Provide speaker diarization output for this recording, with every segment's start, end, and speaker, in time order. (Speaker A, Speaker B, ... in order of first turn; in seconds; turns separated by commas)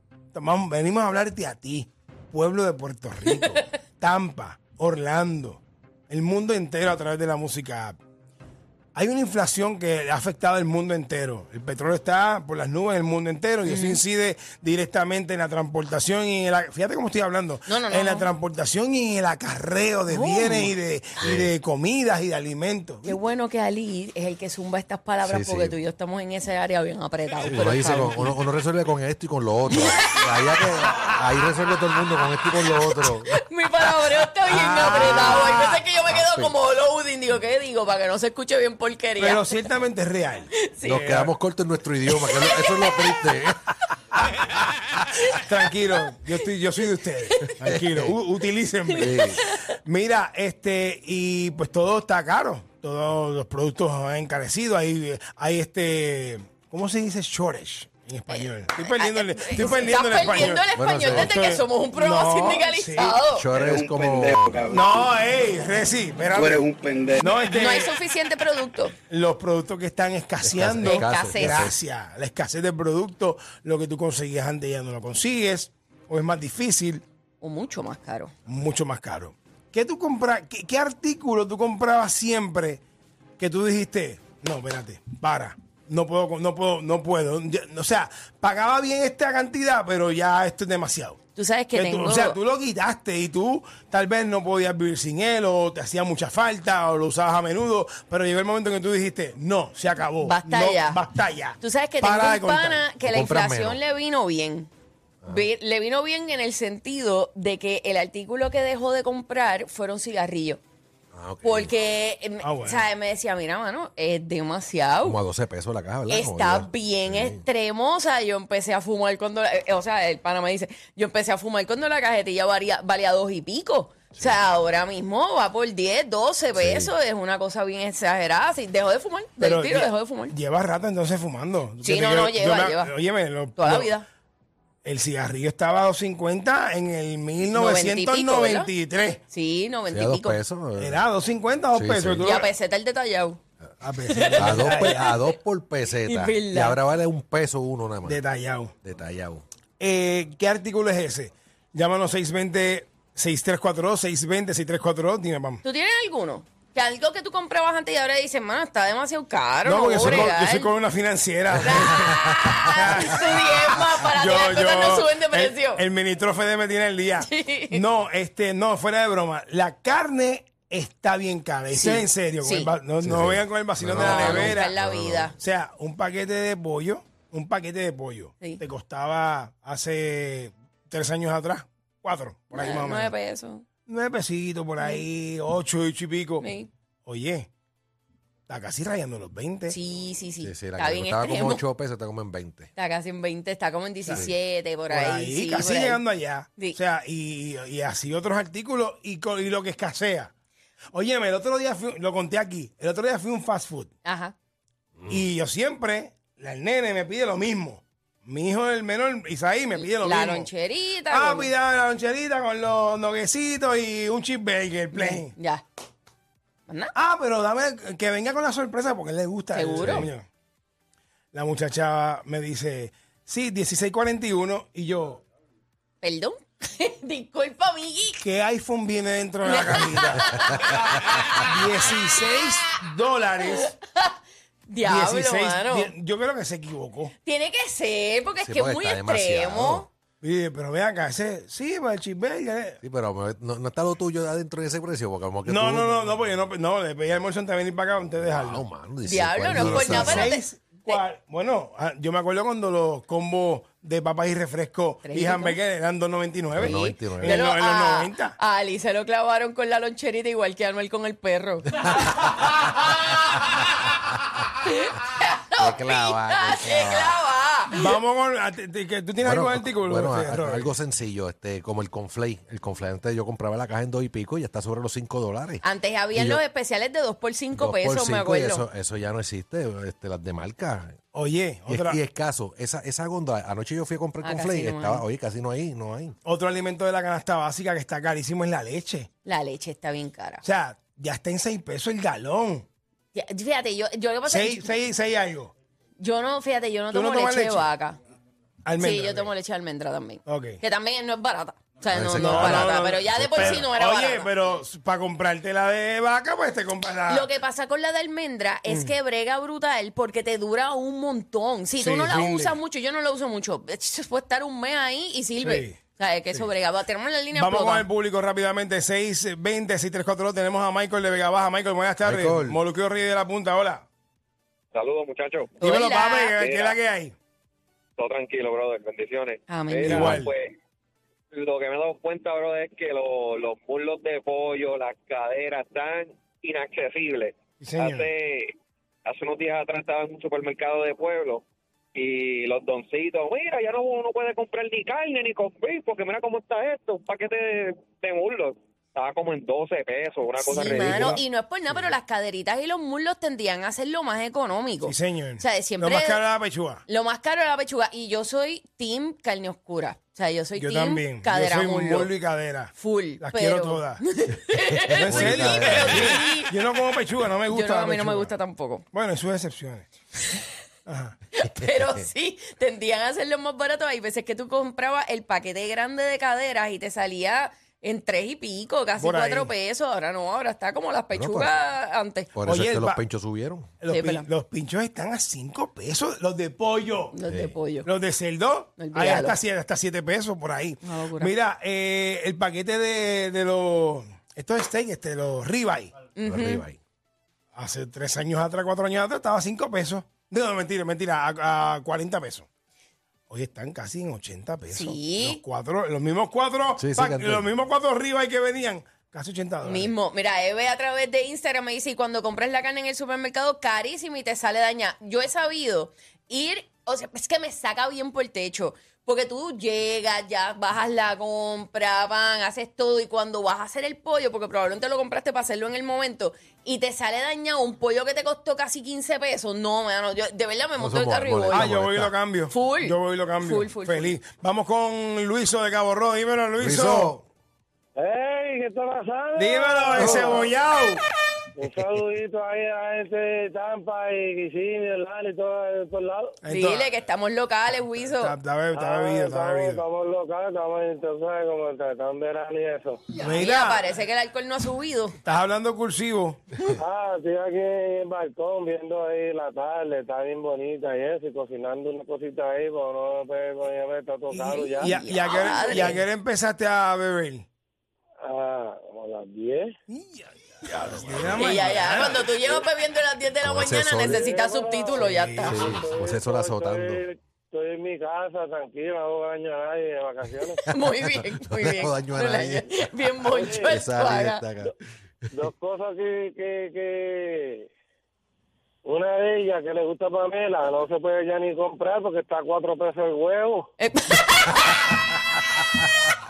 Speaker A: 0.3-8.0, Speaker B: 3.3-3.7, Speaker A: 8.9-23.1, Speaker B: 13.7-14.0, Speaker B: 17.7-18.3, Speaker B: 20.1-20.7, Speaker C: 21.2-21.5, Speaker B: 23.0-28.3, Speaker C: 25.2-25.8, Speaker C: 27.4-33.4, Speaker B: 29.7-30.4, Speaker B: 33.3-39.5, Speaker A: 34.5-35.8, Speaker C: 34.9-35.3, Speaker C: 36.1-36.5, Speaker A: 39.2-41.3, Speaker B: 40.5-41.0, Speaker C: 40.9-43.6, Speaker B: 42.2-43.4, Speaker A: 45.3-63.2, Speaker C: 47.7-48.1, Speaker B: 48.9-49.7, Speaker C: 49.0-49.4, Speaker B: 58.3-63.5, Speaker C: 60.7-61.3, Speaker C: 63.3-64.7, Speaker D: 63.5-65.0, Speaker A: 64.7-66.7, Speaker D: 66.3-67.3, Speaker A: 67.2-68.0, Speaker B: 67.5-69.0, Speaker A: 69.1-77.0, Speaker C: 70.4-71.8, Speaker B: 70.8-71.7, Speaker B: 77.4-78.3, Speaker A: 78.5-82.8, Speaker A: 83.4-91.2, Speaker B: 91.4-92.4, Speaker A: 91.7-102.9, Speaker B: 100.2-101.0, Speaker B: 101.6-104.7, Speaker C: 103.0-103.8, Speaker B: 105.3-110.6, Speaker C: 111.1-111.7, Speaker B: 111.4-115.2, Speaker A: 112.4-112.9, Speaker C: 115.0-117.4, Speaker B: 116.1-130.3, Speaker C: 126.5-126.9, Speaker A: 129.4-133.9, Speaker B: 131.8-132.9, Speaker B: 133.6-134.1, Speaker A: 134.8-139.2, Speaker B: 137.4-138.7, Speaker B: 139.3-140.4, Speaker C: 139.9-141.1, Speaker A: 140.8-142.5, Speaker C: 141.7-142.3, Speaker B: 142.2-143.4, Speaker A: 143.8-145.2, Speaker B: 144.1-145.2, Speaker C: 144.4-148.2, Speaker B: 146.1-146.8, Speaker A: 148.1-148.7, Speaker C: 148.8-149.4, Speaker A: 149.8-155.6, Speaker B: 155.6-160.7, Speaker A: 159.6-174.7, Speaker C: 160.0-160.3, Speaker B: 161.6-165.8, Speaker B: 167.2-167.8, Speaker B: 171.7-172.7, Speaker C: 173.0-175.3, Speaker B: 173.9-175.4, Speaker A: 175.4-183.1, Speaker B: 182.5-183.7, Speaker A: 183.9-186.5, Speaker B: 186.4-186.7, Speaker A: 187.1-187.5, Speaker A: 188.5-189.8, Speaker B: 189.7-191.6, Speaker C: 190.4-192.7, Speaker B: 192.8-196.0, Speaker A: 194.0-194.3, Speaker A: 194.9-200.3, Speaker A: 200.9-203.9, Speaker B: 204.1-204.3, Speaker A: 205.1-210.5, Speaker B: 209.8-211.5, Speaker A: 211.1-215.3, Speaker B: 214.9-215.6, Speaker B: 216.7-216.9, Speaker A: 216.9-220.3, Speaker B: 219.5-220.1, Speaker C: 219.8-220.1, Speaker A: 221.3-225.2, Speaker B: 226.0-228.2, Speaker A: 228.2-230.7, Speaker B: 229.4-231.5, Speaker A: 231.4-233.7, Speaker B: 233.5-235.9, Speaker A: 234.8-237.1, Speaker B: 237.2-239.9, Speaker C: 238.4-239.9, Speaker A: 240.2-242.8, Speaker C: 242.8-246.1, Speaker A: 245.5-248.6, Speaker C: 248.2-250.3, Speaker B: 249.1-251.0, Speaker A: 249.5-258.4, Speaker B: 255.1-255.6, Speaker C: 256.5-257.4, Speaker B: 256.6-262.5, Speaker B: 264.6-267.8, Speaker C: 265.6-267.2, Speaker A: 267.7-270.7, Speaker C: 269.2-275.6, Speaker B: 275.6-278.7, Speaker C: 276.1-276.4, Speaker C: 277.6-281.0, Speaker A: 281.1-282.0, Speaker C: 281.7-286.2, Speaker B: 284.2-285.1, Speaker A: 286.2-289.1, Speaker B: 289.2-290.4, Speaker A: 290.4-292.7, Speaker B: 293.1-294.8, Speaker A: 294.3-295.5, Speaker B: 296.0-298.0, Speaker A: 296.9-297.7, Speaker A: 298.6-299.3, Speaker B: 298.8-304.3, Speaker A: 300.3-300.6, Speaker C: 301.9-303.7, Speaker A: 302.2-307.3, Speaker B: 307.1-317.9, Speaker A: 308.7-309.0, Speaker A: 311.8-312.6, Speaker A: 315.4-315.8, Speaker A: 317.3-323.9, Speaker C: 322.0-322.6, Speaker E: 324.7-325.5, Speaker B: 325.6-326.4, Speaker A: 325.6-327.1, Speaker E: 326.4-326.8, Speaker E: 328.0-330.5, Speaker B: 329.5-330.2, Speaker A: 329.8-330.3, Speaker E: 331.3-338.5, Speaker A: 337.6-338.1, Speaker E: 339.1-341.4, Speaker E: 341.9-351.2, Speaker B: 350.4-356.2, Speaker A: 350.6-351.2, Speaker A: 354.8-356.8, Speaker B: 356.9-362.1, Speaker A: 360.6-364.0, Speaker B: 362.7-366.6, Speaker A: 364.9-368.3, Speaker C: 365.0-366.2, Speaker B: 367.5-368.9, Speaker A: 368.9-369.9, Speaker A: 370.9-371.2, Speaker B: 371.3-382.3, Speaker C: 371.6-372.1, Speaker A: 379.0-379.5, Speaker C: 381.1-381.5, Speaker C: 382.3-383.8, Speaker A: 382.4-383.0, Speaker A: 383.8-387.2, Speaker B: 383.9-384.3, Speaker B: 387.1-387.9, Speaker C: 387.3-387.6, Speaker A: 387.8-395.9, Speaker B: 388.8-389.4, Speaker B: 390.8-391.3, Speaker B: 396.2-396.6, Speaker C: 396.2-396.8, Speaker A: 397.6-402.5, Speaker A: 403.3-409.9, Speaker B: 404.7-405.4, Speaker C: 406.8-407.5, Speaker B: 409.6-431.7, Speaker C: 430.8-432.1, Speaker A: 431.5-437.1, Speaker B: 432.5-434.2, Speaker C: 436.6-437.3, Speaker D: 438.0-440.5, Speaker A: 439.4-441.0, Speaker D: 441.6-446.4, Speaker A: 446.4-446.9, Speaker B: 446.5-448.4, Speaker A: 448.1-449.8, Speaker D: 448.7-453.0, Speaker A: 453.1-453.8, Speaker B: 453.3-455.2, Speaker A: 455.2-456.5, Speaker D: 456.8-465.0, Speaker A: 464.3-467.5, Speaker B: 464.8-466.0, Speaker D: 468.2-469.7, Speaker A: 469.9-472.4, Speaker C: 471.1-471.6, Speaker B: 471.4-475.7, Speaker C: 473.4-474.3, Speaker D: 474.0-480.6, Speaker A: 475.0-475.6, Speaker C: 475.4-477.0, Speaker C: 480.7-484.7, Speaker B: 480.7-484.5, Speaker D: 483.3-483.8, Speaker D: 485.3-487.7, Speaker D: 488.9-493.7, Speaker B: 493.8-495.0